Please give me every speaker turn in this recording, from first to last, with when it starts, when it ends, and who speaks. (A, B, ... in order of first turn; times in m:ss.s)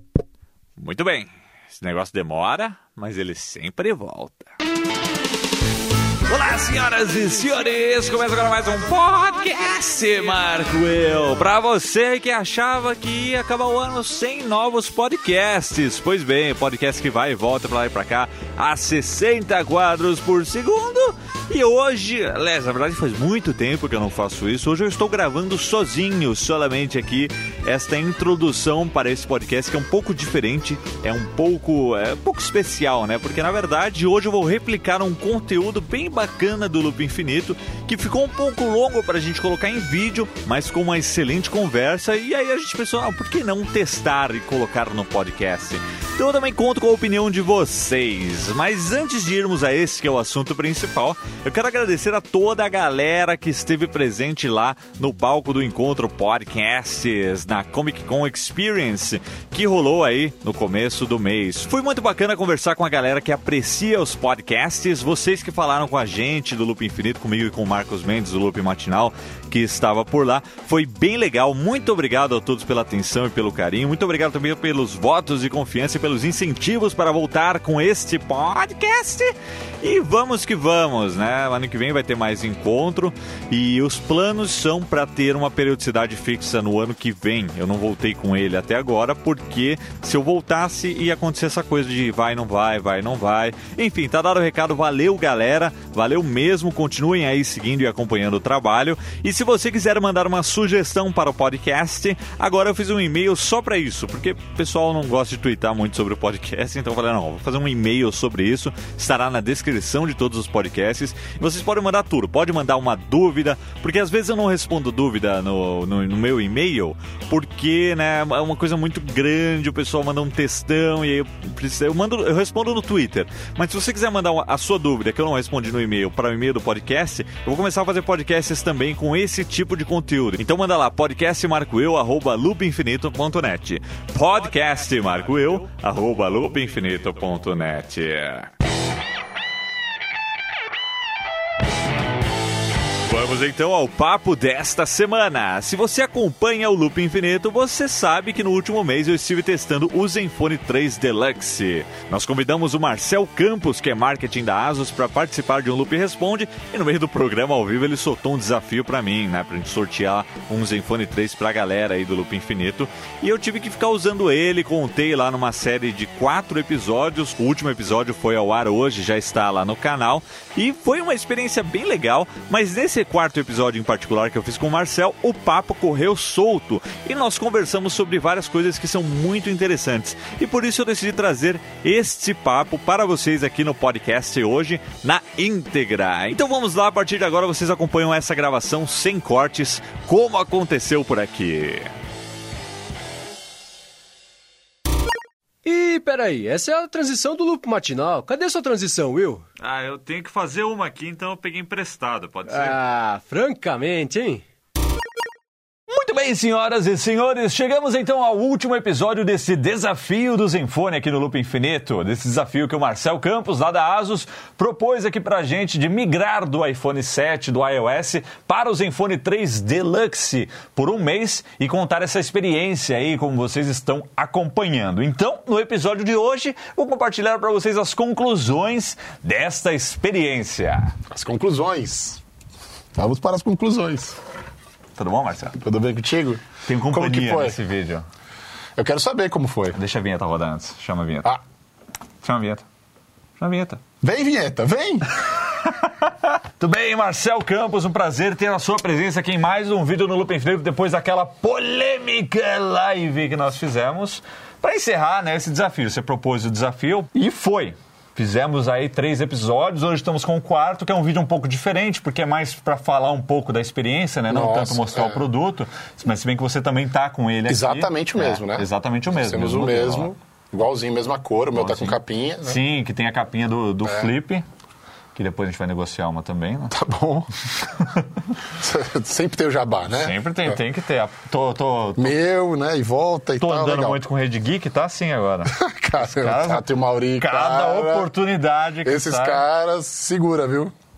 0:00.8-0:04.5 A
0:06.3-2:18.5 A
2:23.1-3:11.9 A
3:15.6-3:19.4 B
3:19.6-3:22.8 A
3:22.5-3:24.4 B
3:25.9-3:50.9 A
3:51.1-3:52.2 C
3:53.0-3:54.2 C
3:55.0-3:55.6 A
3:55.6-3:57.6 C
3:56.6-3:58.0 A
3:58.8-3:59.8 C
3:59.7-4:01.4 A
4:02.2-4:02.6 A
4:03.4-4:03.8 A
4:04.0-4:05.1 C
4:05.5-4:30.1 A
4:24.3-4:25.2 C
4:27.5-4:32.6 C
4:31.6-4:34.4 A
4:35.2-4:36.8 A
4:36.7-4:37.3 C
4:38.5-4:40.6 C
4:39.9-4:42.2 A
4:42.0-4:44.0 C
4:43.4-4:46.7 A
4:45.5-4:48.1 C
4:47.2-4:49.4 A
4:48.8-4:50.7 C